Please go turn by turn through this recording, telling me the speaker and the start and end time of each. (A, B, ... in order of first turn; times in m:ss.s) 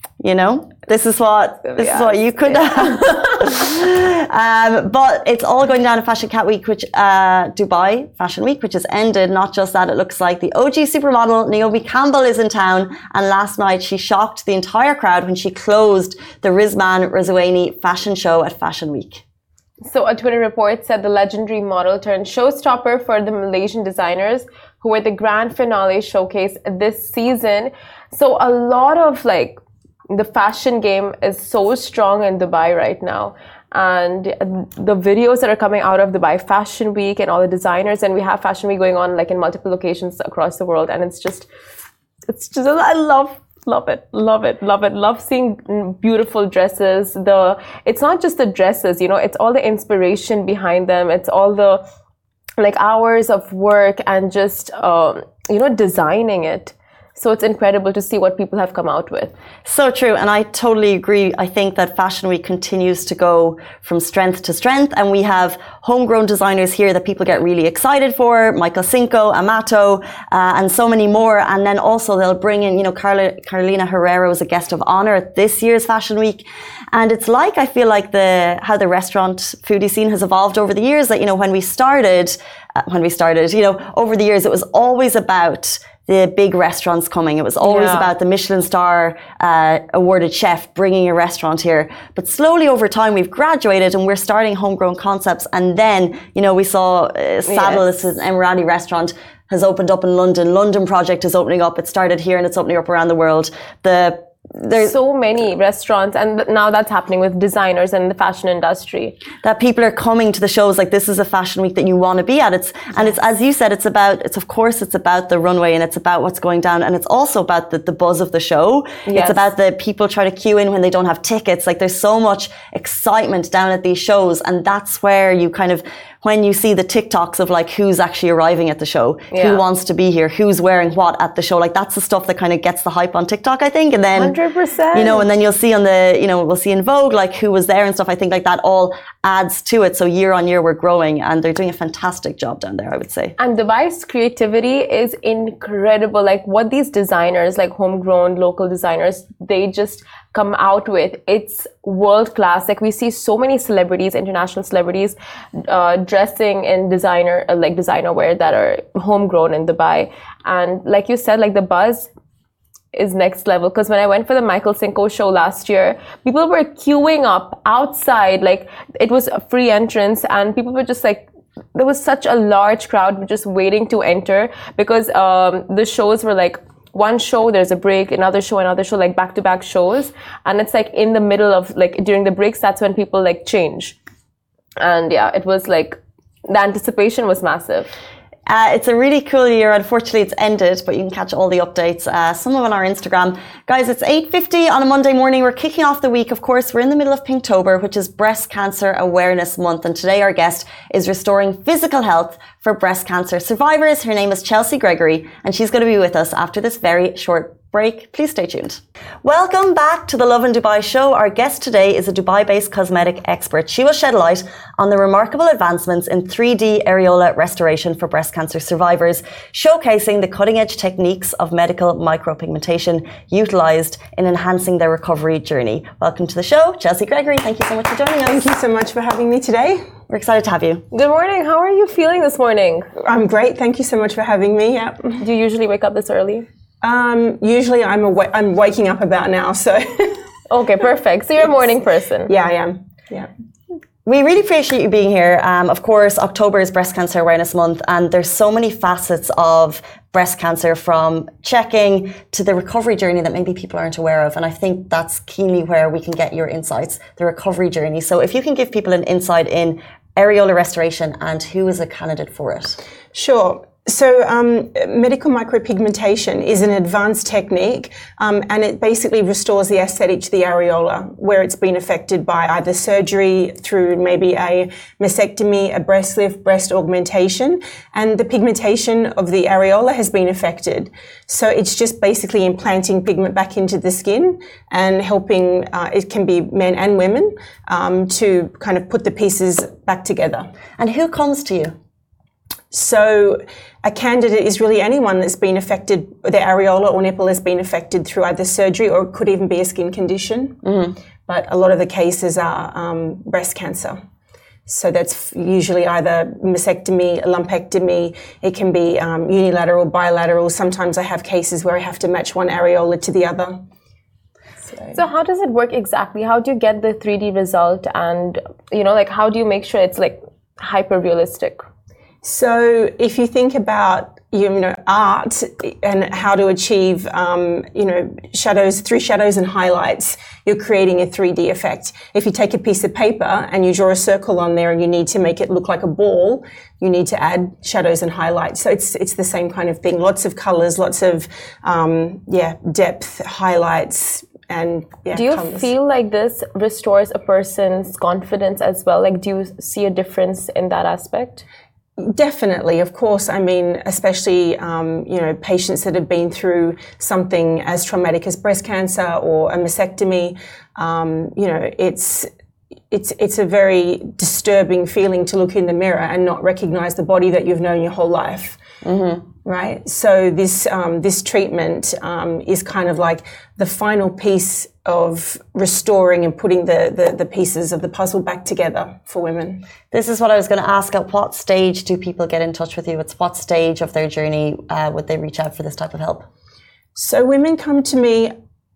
0:00.2-0:19.2 A
0:01.6-0:03.4 B
0:19.8-0:29.6 B
0:30.1-0:41.5 B
0:42.3-0:51.8 B
0:52.6-0:59.3 B
0:59.6-1:45.0 A
1:27.6-1:28.1 B
1:37.4-1:37.8 B
1:44.8-1:49.2 B
1:49.4-2:14.3 A
1:59.0-1:59.5 B
2:09.3-2:09.6 B
2:14.2-2:15.2 B
2:14.9-2:23.3 A
2:23.4-2:42.1 B
2:42.9-3:04.0 B
3:04.8-3:07.9 B
3:08.5-3:48.5 A
3:48.2-3:49.8 C
3:50.1-3:50.8 A
3:50.9-3:52.9 B
3:53.0-3:55.2 C
3:55.2-3:56.4 B
3:56.8-4:00.3 C
4:00.5-4:02.3 B
4:02.3-4:03.3 C
4:04.0-4:22.8 A
4:23.1-4:50.5 C
4:50.8-4:51.7 A
4:52.7-5:00.6 C
5:00.6-5:00.9 A
5:01.3-5:04.0 C
5:04.7-5:13.6 C
5:14.7-5:14.9 C
5:14.9-5:21.7 B
5:22.2-5:45.7 C
5:45.1-5:51.4 B
5:52.0-6:02.3 C
6:02.9-6:08.6 C
6:08.8-6:09.2 A
6:09.4-6:19.6 C
6:19.9-6:26.3 A
6:27.0-6:28.3 C